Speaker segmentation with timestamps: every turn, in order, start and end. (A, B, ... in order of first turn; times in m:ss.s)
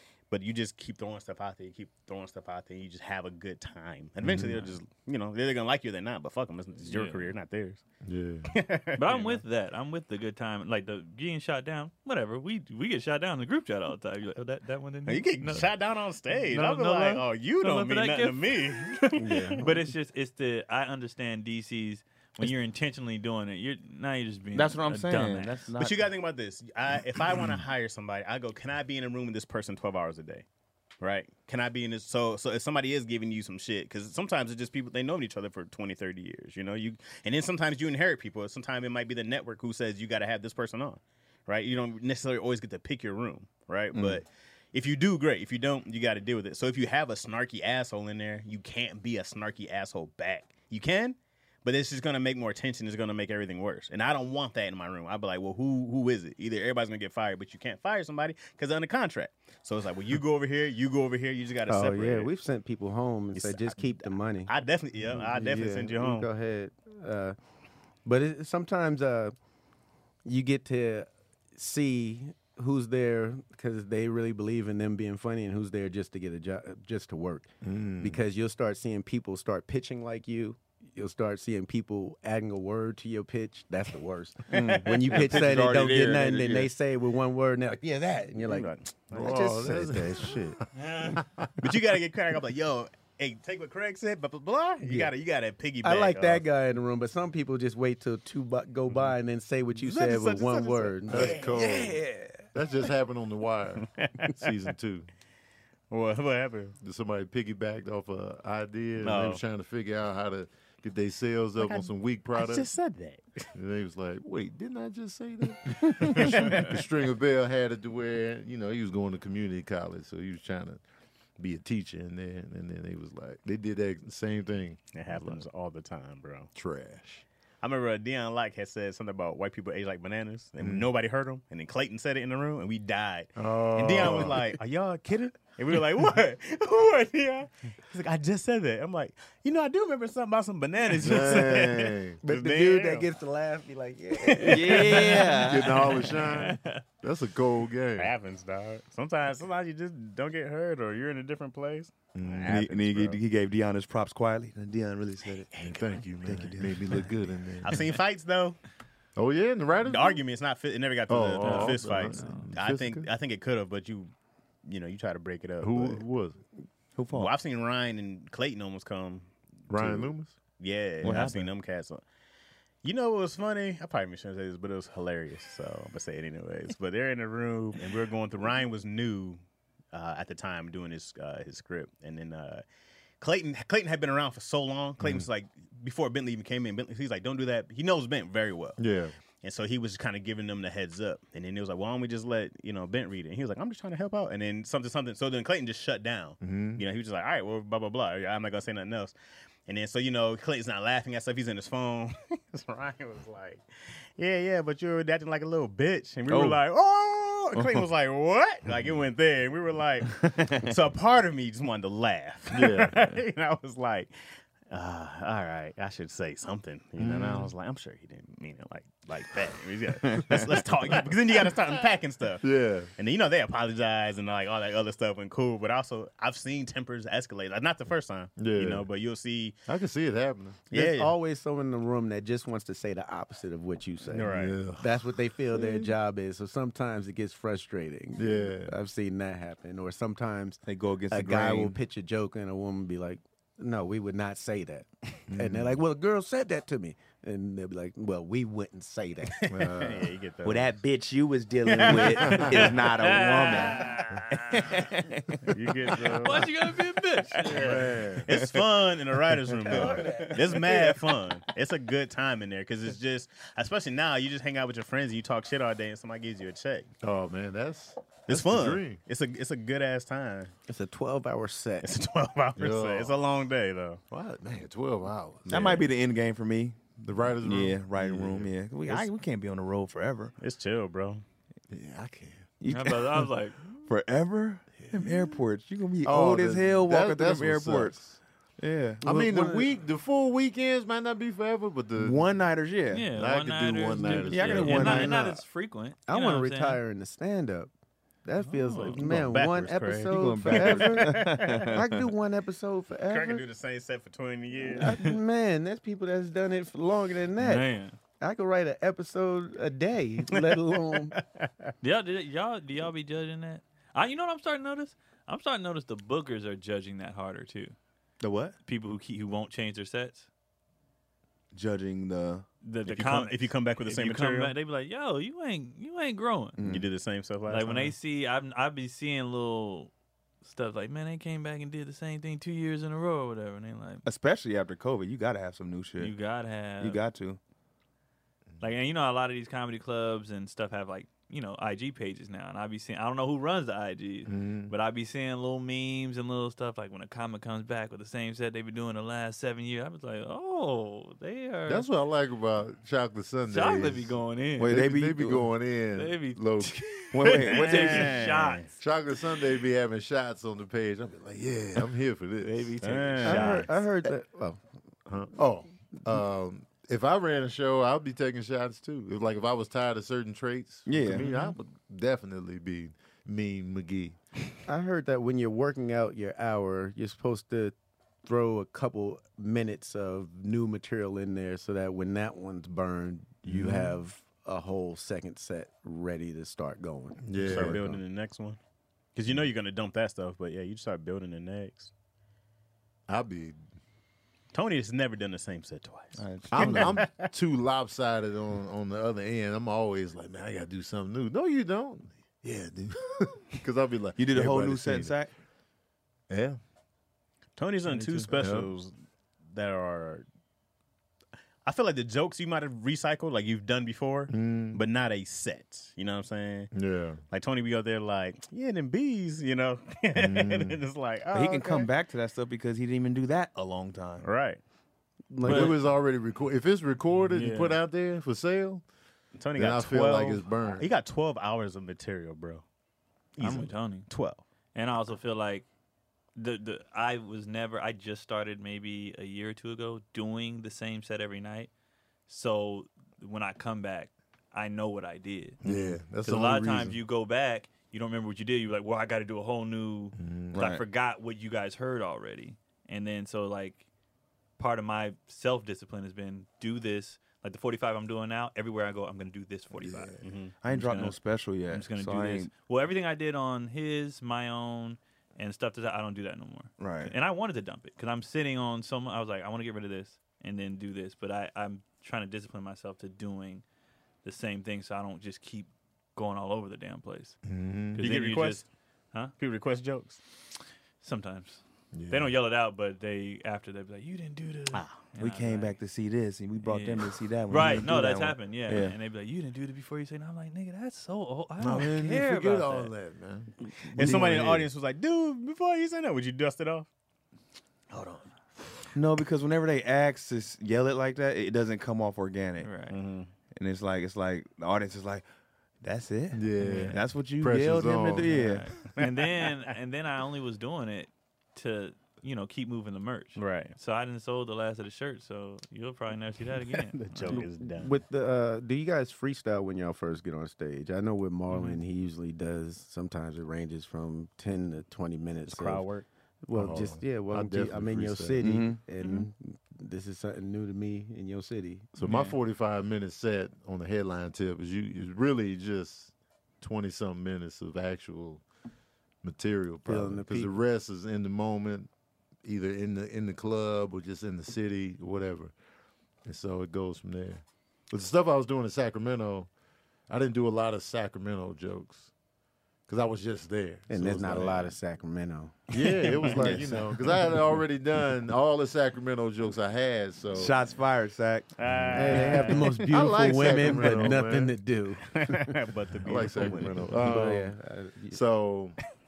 0:00.3-0:07.8 A
0:04.2-0:04.6 B
0:06.8-0:07.3 C
0:08.0-0:08.5 B
0:08.5-0:09.4 A
0:09.0-0:15.7 C
0:15.0-0:19.6 A
0:16.4-0:25.6 C
0:19.2-0:19.8 D
0:24.5-0:26.1 E
0:25.8-0:30.4 A
0:31.0-1:02.3 A
0:43.9-0:44.2 E
1:01.7-1:04.5 D
1:03.3-1:06.3 A
1:05.1-1:07.4 D
1:08.0-1:09.3 D
1:10.2-1:30.5 D
1:17.6-1:18.2 B
1:24.5-1:26.7 E
1:24.6-1:25.5 A
1:28.4-1:29.5 A
1:29.1-1:31.5 B
1:30.8-1:31.2 C
1:31.6-1:36.4 A
1:34.8-1:35.1 D
1:35.8-1:42.4 D
1:39.8-1:41.9 A
1:41.1-1:42.0 B
1:42.5-1:45.1 B
1:43.8-1:44.4 A
1:45.9-1:46.8 A
1:46.8-1:52.7 B
1:49.0-1:49.4 A
1:51.6-1:53.5 A
1:53.5-2:00.8 B
1:55.8-1:56.8 A
2:01.4-2:05.4 B
2:04.9-2:06.5 A
2:06.6-2:07.2 B
2:07.6-2:23.1 A
2:10.6-2:10.9 B
2:13.4-2:14.5 B
2:21.0-2:22.2 B
2:22.2-2:25.3 D
2:24.2-2:25.5 A
2:24.4-2:26.1 E
2:25.3-2:28.1 B
2:26.0-2:26.8 C
2:28.0-2:33.2 A
2:32.1-2:32.6 B
2:32.4-2:37.1 E
2:35.5-2:35.8 A
2:35.6-2:37.9 B
2:37.6-2:38.6 A
2:39.2-2:40.2 B
2:39.8-2:44.1 A
2:41.1-2:43.1 B
2:41.4-2:42.5 C
2:44.6-2:46.0 A
2:45.6-2:46.4 B
2:47.0-2:47.3 E
2:47.1-2:52.0 A
2:49.7-2:50.4 B
2:51.0-2:51.5 E
2:52.8-2:59.4 A
2:59.9-3:02.6 A
3:03.2-3:08.8 A
3:05.0-3:05.3 B
3:08.8-3:09.1 B
3:09.4-3:19.1 A
3:16.4-3:16.8 B
3:19.6-3:34.1 A
3:26.3-3:26.6 E
3:27.6-3:27.8 E
3:30.2-3:30.7 E
3:32.5-3:33.0 B
3:34.7-3:49.6 A
3:37.0-3:37.5 B
3:40.1-3:40.4 E
3:42.4-3:42.9 B
3:48.4-3:48.8 B
3:49.7-3:50.6 B
3:50.7-3:51.1 A
3:50.7-4:10.0 D
3:54.1-3:54.6 A
3:54.3-3:55.9 B
3:58.2-3:58.7 B
4:00.6-4:01.8 E
4:05.3-4:05.8 B
4:09.4-4:10.8 A
4:09.5-4:10.0 B
4:10.4-4:13.9 E
4:11.6-4:12.8 A
4:12.2-4:12.6 B
4:12.5-4:14.8 C
4:14.5-4:16.1 E
4:15.5-4:16.5 A
4:16.0-4:18.0 C
4:17.4-4:26.9 A
4:17.5-4:18.3 B
4:19.7-4:20.6 E
4:19.8-4:20.4 D
4:27.0-4:29.0 B
4:28.3-4:30.5 A
4:30.7-4:31.9 D
4:31.8-4:34.0 A
4:32.6-4:33.2 B
4:34.1-4:35.9 B
4:35.5-4:40.3 E
4:35.5-4:35.8 A
4:37.0-4:39.0 B
4:40.4-4:41.2 A
4:41.7-4:42.4 B
4:42.6-4:43.3 E
4:42.7-4:43.7 C
4:43.8-4:48.0 E
4:44.8-4:45.4 B
4:46.0-4:48.2 B
4:48.6-4:49.0 E
4:49.0-4:49.7 D
4:49.0-4:52.2 B
4:52.0-4:53.1 E
4:52.9-4:56.8 C
4:53.1-4:55.2 B
4:54.0-4:55.3 E
4:56.1-4:57.7 D
4:58.2-5:03.4 D
4:58.5-4:59.0 C
4:58.7-5:01.8 A
5:00.1-5:02.1 E
5:03.1-5:05.0 A
5:04.7-5:11.2 D
5:07.4-5:07.9 C
5:10.3-5:11.7 A
5:11.8-5:17.7 C
5:18.2-5:18.5 E
5:18.6-5:20.3 C
5:21.5-5:22.4 E
5:22.6-5:26.6 C
5:22.8-5:24.5 A
5:26.6-5:26.9 E
5:26.6-5:27.9 A
5:27.5-5:29.9 C
5:30.4-5:34.0 C
5:34.0-5:36.1 E
5:36.0-5:37.0 C
5:36.8-5:37.4 E
5:38.6-5:51.8 C
5:44.2-5:44.7 B
5:51.7-5:56.8 B
5:53.5-5:54.7 C
5:54.6-5:55.5 E
5:55.9-5:58.8 C
5:57.1-5:58.1 E
5:57.3-5:58.7 A
5:58.8-6:02.7 B
6:02.4-6:03.7 C
6:02.8-6:03.7 A
6:03.2-6:04.6 D
6:05.1-6:14.2 B
6:10.9-6:11.3 E
6:11.1-6:11.5 C
6:14.6-6:28.0 D
6:23.4-6:24.0 B
6:27.2-6:27.8 B
6:27.4-6:28.6 A
6:29.1-6:31.9 A
6:33.1-6:33.6 B
6:34.5-6:37.3 A
6:36.2-6:37.0 E
6:36.5-6:45.2 B
6:44.2-6:45.3 E
6:46.3-6:46.6 B
6:47.6-6:48.9 A
6:47.8-6:48.3 C
6:48.4-6:48.7 B
6:49.5-6:50.2 A
6:51.6-6:56.7 A
6:54.3-6:54.8 B
6:56.7-6:57.2 B
6:57.3-7:01.9 A
7:00.2-7:00.8 B
7:01.3-7:04.3 E
7:04.2-7:04.6 A
7:05.3-7:05.8 D
7:05.4-7:05.8 C
7:05.4-7:08.8 B
7:07.3-7:07.8 C
7:09.3-7:12.6 A
7:09.6-7:10.9 B
7:13.4-7:14.4 A
7:13.4-7:14.1 C
7:14.7-7:15.7 C
7:16.4-7:21.7 C
7:22.3-7:25.6 C
7:25.6-7:27.0 B
7:26.2-7:33.8 C
7:30.2-7:30.7 B
7:30.5-7:30.8 E
7:34.6-7:53.6 C
7:39.7-7:40.2 B
7:40.2-7:40.6 A
7:40.6-7:42.5 E
7:46.8-7:47.1 E
7:54.2-7:57.4 C
7:57.4-7:58.0 B
7:57.9-7:59.3 C
7:58.0-7:58.6 A
7:59.4-8:00.2 A
8:01.0-8:05.8 C
8:01.9-8:02.3 B
8:04.7-8:05.1 A
8:05.2-8:08.9 E
8:06.6-8:12.9 C
8:11.6-8:14.4 B
8:13.8-8:16.9 A
8:14.0-8:14.7 E
8:18.9-8:22.7 E
8:22.6-8:23.0 C
8:22.9-8:23.3 A
8:23.5-8:25.2 E
8:25.8-8:28.7 E
8:26.3-8:28.3 B
8:26.6-8:27.0 C
8:28.2-8:37.4 C
8:28.8-8:29.7 A
8:33.4-8:33.7 A
8:36.6-8:38.0 A
8:37.3-8:45.9 D
8:41.5-8:41.8 C
8:45.5-8:46.1 A
8:46.4-8:51.9 D
8:46.5-8:48.5 B
8:48.4-8:48.8 E
8:49.0-8:49.3 C
8:51.9-8:58.4 B
8:52.0-8:52.4 C
8:59.2-9:01.9 B
8:59.8-9:00.5 D
9:02.4-9:05.5 B
9:06.2-9:09.5 B
9:10.1-9:12.1 B
9:12.9-9:14.7 B
9:13.9-9:15.7 D
9:15.7-9:20.5 B
9:15.8-9:17.4 A
9:16.2-9:16.6 D
9:20.3-9:22.6 E
9:21.6-9:22.9 A
9:21.8-9:22.2 B
9:21.9-9:25.5 D
9:22.9-9:24.6 B
9:23.6-9:23.9 A
9:25.1-9:27.3 A
9:26.0-9:27.5 B
9:26.4-9:28.2 D
9:28.1-9:28.8 B